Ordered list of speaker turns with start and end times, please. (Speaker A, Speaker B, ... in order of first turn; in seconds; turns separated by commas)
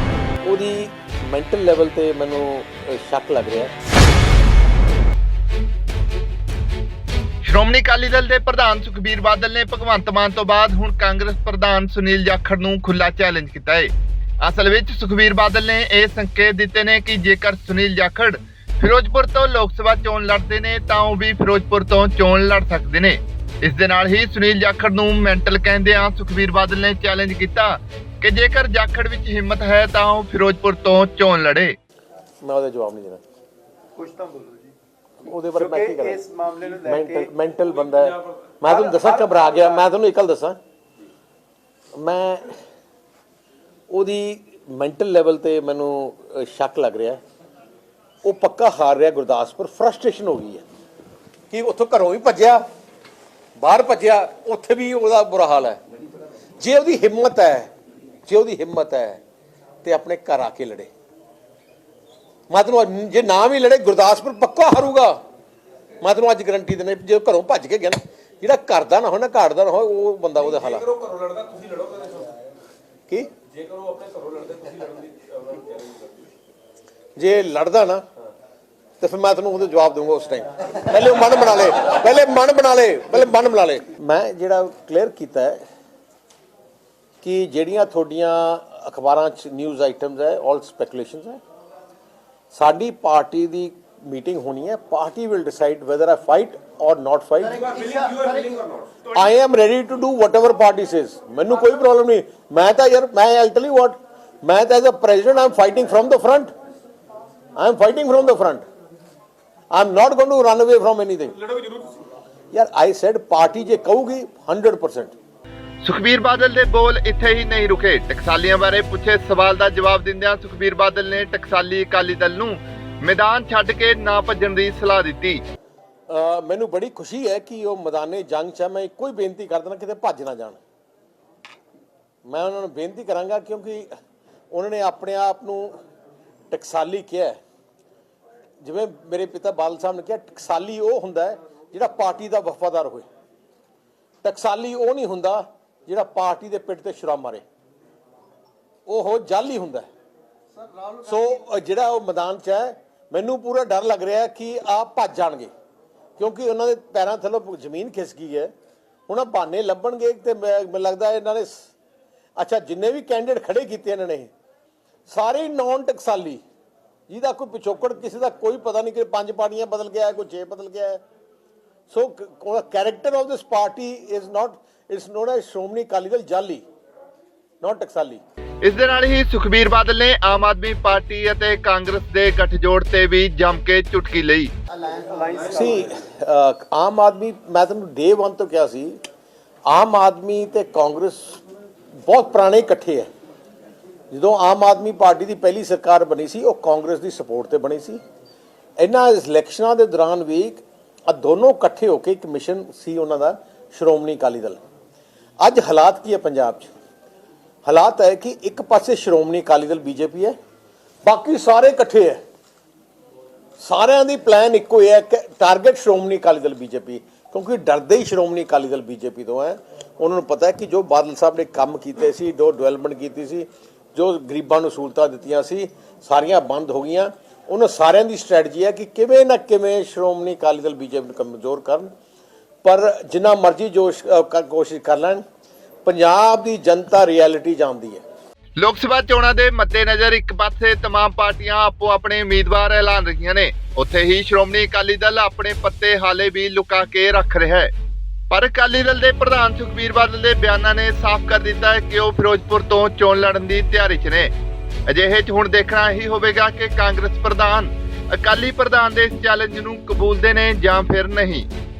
Speaker A: 0.4-3.7, Speaker B: 7.4-31.8, Speaker A: 32.4-33.2, Speaker C: 34.0-34.7, Speaker A: 35.2-36.2, Speaker C: 35.5-37.3, Speaker A: 36.8-40.6, Speaker C: 38.7-39.4, Speaker A: 41.9-42.6, Speaker A: 43.9-47.2, Speaker A: 48.2-50.6, Speaker A: 51.5-52.6, Speaker A: 53.6-55.8, Speaker A: 56.6-57.7, Speaker A: 58.2-59.2, Speaker A: 59.8-60.9, Speaker A: 62.5-65.2, Speaker A: 66.0-71.1, Speaker D: 71.2-72.3, Speaker D: 73.8-75.6, Speaker A: 77.2-78.0, Speaker A: 79.0-85.6, Speaker A: 87.2-91.4, Speaker A: 92.5-97.9, Speaker A: 99.1-106.5, Speaker A: 107.5-108.6, Speaker A: 109.7-111.7, Speaker A: 112.5-115.1, Speaker B: 115.8-125.4, Speaker A: 126.1-130.6, Speaker A: 132.2-133.9, Speaker A: 134.5-135.8, Speaker A: 136.5-137.4, Speaker A: 138.6-143.1, Speaker A: 144.2-147.4, Speaker A: 148.9-149.9, Speaker A: 150.9-155.5, Speaker A: 156.2-158.5, Speaker A: 159.1-161.7, Speaker A: 162.4-164.3, Speaker A: 165.1-166.4, Speaker A: 167.1-171.0, Speaker A: 171.9-176.6, Speaker A: 177.6-178.2, Speaker B: 178.6-184.5, Speaker C: 184.9-185.8, Speaker A: 185.5-189.0, Speaker A: 189.7-191.4, Speaker A: 192.1-193.1, Speaker A: 194.1-198.0, Speaker A: 198.8-204.6, Speaker A: 205.4-206.7, Speaker A: 207.6-210.3, Speaker A: 211.0-212.2, Speaker A: 213.6-231.9, Speaker A: 232.6-235.2, Speaker A: 235.8-238.0, Speaker B: 238.6-247.7, Speaker B: 248.3-254.3, Speaker B: 254.9-261.5